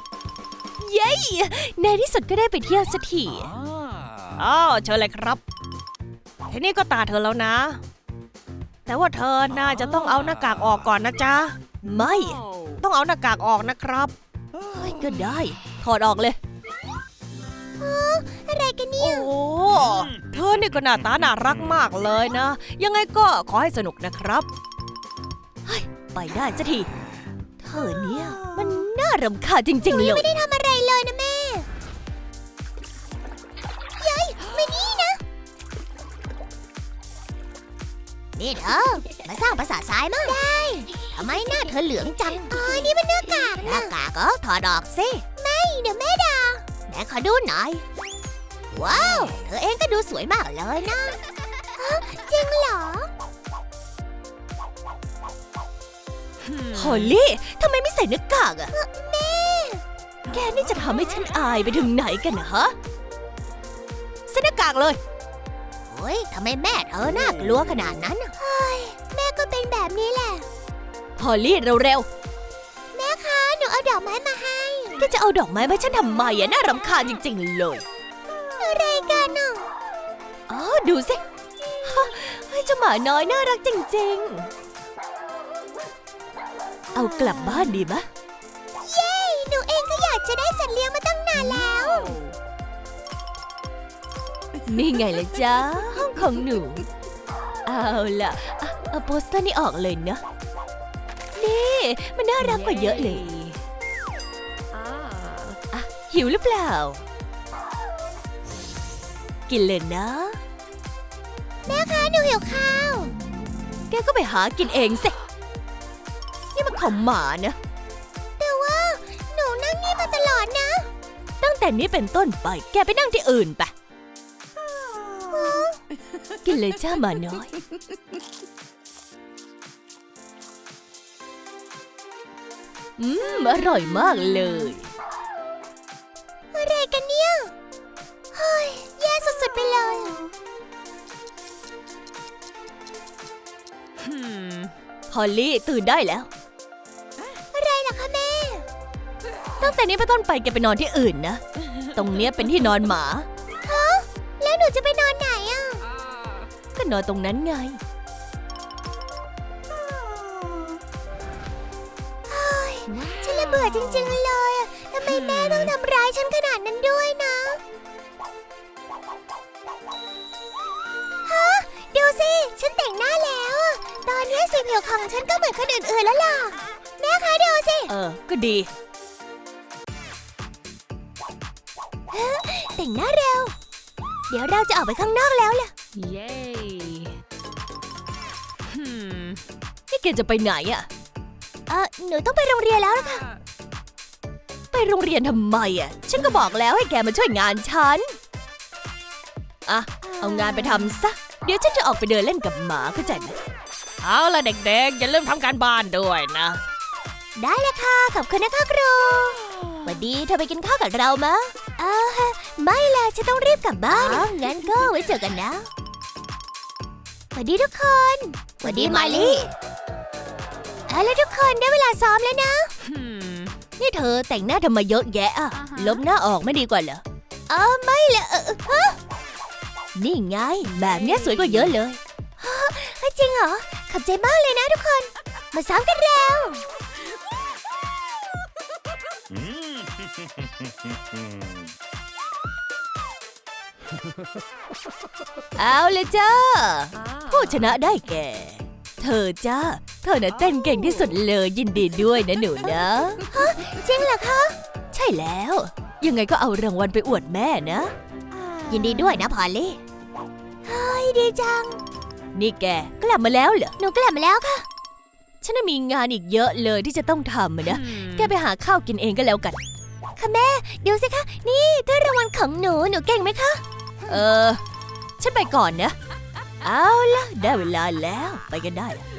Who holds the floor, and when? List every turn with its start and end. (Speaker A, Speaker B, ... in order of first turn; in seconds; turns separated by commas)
Speaker A: 0.8-3.5, Speaker B: 4.4-5.4, Speaker B: 6.5-7.8, Speaker B: 8.9-11.6, Speaker A: 11.8-12.4, Speaker B: 12.8-14.1, Speaker A: 14.7-16.4, Speaker C: 17.8-19.3, Speaker B: 19.0-24.5, Speaker A: 25.7-26.9, Speaker A: 27.6-30.3, Speaker C: 29.8-31.7, Speaker C: 34.0-35.2, Speaker C: 38.4-47.8, Speaker C: 48.7-51.2, Speaker C: 51.7-53.1, Speaker D: 56.4-57.1, Speaker A: 56.7-58.7, Speaker C: 58.7-59.8, Speaker A: 60.3-62.7, Speaker A: 64.3-65.0, Speaker C: 65.9-70.5, Speaker A: 71.2-72.1, Speaker C: 72.9-75.1, Speaker A: 75.0-77.8, Speaker C: 78.3-79.7, Speaker A: 80.5-81.2, Speaker A: 81.8-84.5, Speaker A: 86.9-88.1, Speaker C: 88.8-92.2, Speaker D: 91.6-92.2, Speaker A: 94.7-96.8, Speaker A: 97.7-100.2, Speaker A: 101.4-103.3, Speaker D: 102.4-103.6, Speaker D: 104.7-105.6, Speaker A: 105.7-107.0, Speaker A: 109.5-110.4, Speaker C: 111.7-113.2, Speaker A: 113.9-115.2, Speaker A: 116.5-117.6, Speaker C: 118.4-120.9, Speaker A: 121.4-123.7, Speaker C: 125.2-125.8, Speaker A: 126.4-127.5, Speaker A: 133.0-134.9, Speaker C: 136.5-137.5, Speaker C: 138.3-140.3, Speaker D: 144.0-144.7, Speaker A: 145.1-146.3, Speaker C: 147.5-148.7, Speaker A: 149.6-153.3, Speaker C: 153.6-155.8, Speaker A: 156.8-157.8, Speaker C: 162.3-167.6, Speaker D: 165.1-165.8, Speaker C: 171.3-177.9, Speaker A: 177.9-178.7, Speaker C: 182.1-183.5, Speaker C: 184.3-185.7, Speaker D: 185.9-187.2, Speaker D: 188.7-189.4, Speaker A: 189.9-190.9, Speaker C: 191.7-193.2, Speaker A: 194.7-198.1, Speaker A: 199.7-203.4, Speaker C: 200.1-200.8, Speaker B: 204.0-206.6, Speaker C: 207.4-215.7, Speaker A: 210.8-211.4, Speaker A: 213.9-215.2, Speaker C: 217.3-219.5, Speaker A: 218.6-219.5, Speaker C: 220.9-222.7, Speaker D: 222.8-223.6, Speaker A: 223.8-227.0, Speaker C: 227.5-229.0, Speaker A: 229.9-232.0, Speaker D: 230.7-231.7, Speaker C: 232.4-236.6, Speaker A: 245.6-253.6, Speaker D: 246.9-247.8, Speaker C: 253.3-254.6, Speaker A: 254.9-257.9, Speaker C: 258.7-259.8, Speaker D: 259.0-259.2, Speaker C: 260.6-261.8, Speaker A: 262.4-263.7, Speaker C: 263.8-264.7, Speaker A: 265.4-269.6, Speaker D: 267.7-268.3, Speaker C: 270.2-274.2, Speaker A: 274.1-274.6, Speaker A: 275.2-275.9, Speaker A: 276.6-279.0